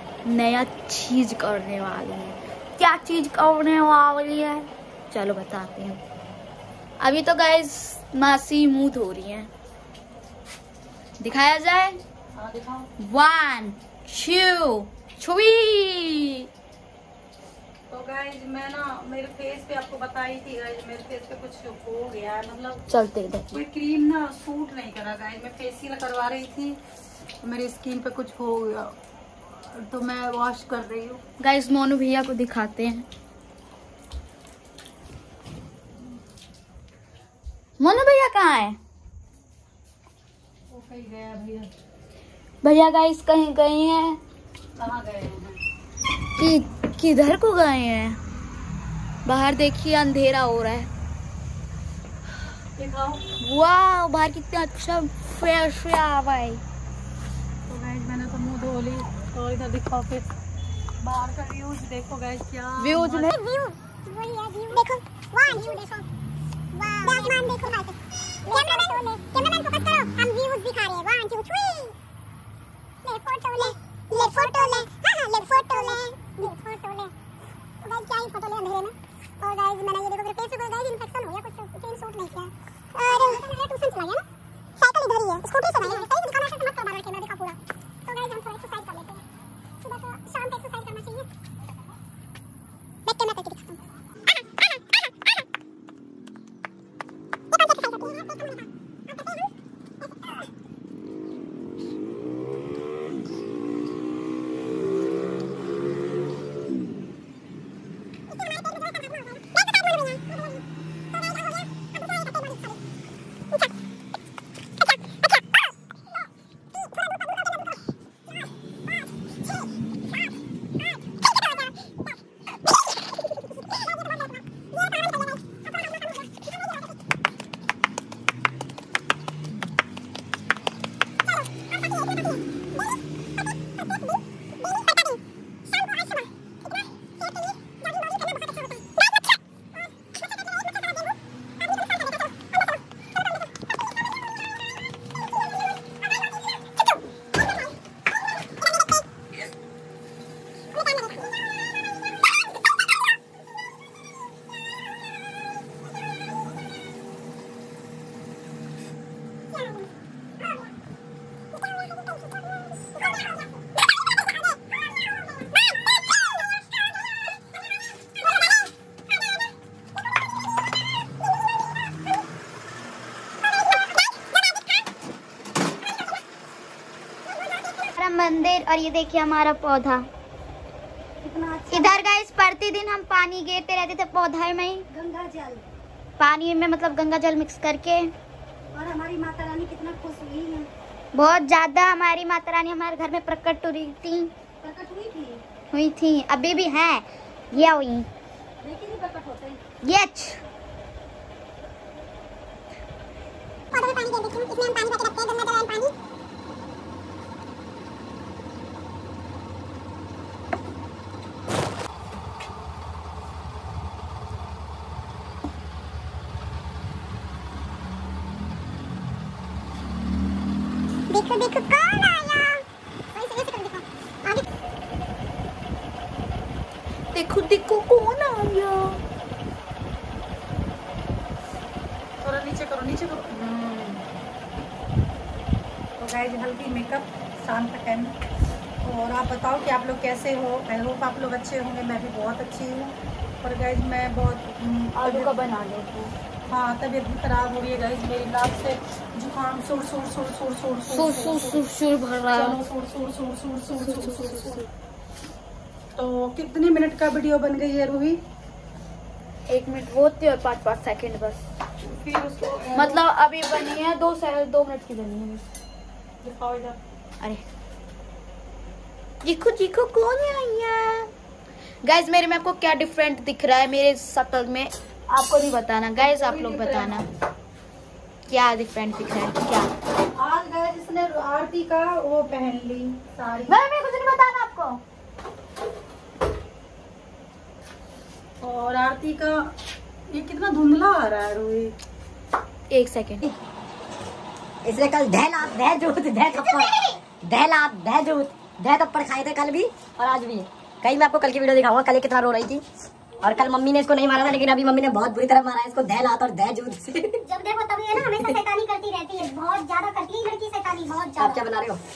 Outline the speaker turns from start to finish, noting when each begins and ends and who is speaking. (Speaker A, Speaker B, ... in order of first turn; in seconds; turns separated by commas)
Speaker A: 0.2-6.0, Speaker A: 7.0-9.5, Speaker A: 11.2-12.0, Speaker B: 12.3-12.9, Speaker A: 13.0-16.5, Speaker B: 17.9-22.8, Speaker A: 22.9-23.5, Speaker B: 23.5-26.8, Speaker B: 27.4-28.9, Speaker B: 29.7-31.2, Speaker A: 31.4-33.1, Speaker A: 37.8-38.8, Speaker B: 40.7-41.7, Speaker A: 42.6-44.2, Speaker B: 44.8-45.6, Speaker A: 46.4-48.2, Speaker A: 49.2-50.9, Speaker B: 52.8-53.2, Speaker A: 53.3-56.6, Speaker B: 57.7-60.3, Speaker B: 61.0-63.4, Speaker A: 62.8-63.3, Speaker C: 63.3-66.0, Speaker C: 66.8-67.9, Speaker C: 68.5-71.9, Speaker C: 73.0-77.1, Speaker C: 77.8-84.2, Speaker C: 84.8-89.2, Speaker C: 89.8-91.2, Speaker C: 93.1-93.8, Speaker C: 97.5-98.6, Speaker A: 178.0-180.0, Speaker B: 181.2-182.0, Speaker A: 181.7-184.8, Speaker B: 184.9-185.6, Speaker A: 186.2-188.1, Speaker B: 188.7-190.7, Speaker A: 191.1-194.3, Speaker B: 194.6-195.4, Speaker A: 195.7-198.1, Speaker B: 198.6-199.6, Speaker A: 199.8-200.4, Speaker C: 203.7-205.9, Speaker C: 221.1-222.6, Speaker C: 223.1-224.4, Speaker A: 227.1-229.0, Speaker B: 232.2-234.0, Speaker B: 236.0-238.2, Speaker B: 238.8-245.3, Speaker A: 244.9-246.1, Speaker B: 246.5-251.7, Speaker A: 250.9-252.6, Speaker B: 252.3-254.7, Speaker A: 253.8-254.6, Speaker B: 255.9-258.2, Speaker A: 259.5-261.4, Speaker B: 261.8-263.0, Speaker A: 262.7-265.4, Speaker B: 266.2-266.8, Speaker A: 269.2-271.1, Speaker A: 271.8-277.0, Speaker B: 276.0-277.0, Speaker A: 278.3-279.7, Speaker B: 280.1-283.6, Speaker A: 283.5-284.8, Speaker B: 288.4-289.5, Speaker B: 290.1-291.7, Speaker A: 292.7-293.3, Speaker D: 294.6-302.6, Speaker D: 303.2-307.2, Speaker C: 307.2-311.5, Speaker D: 311.1-311.8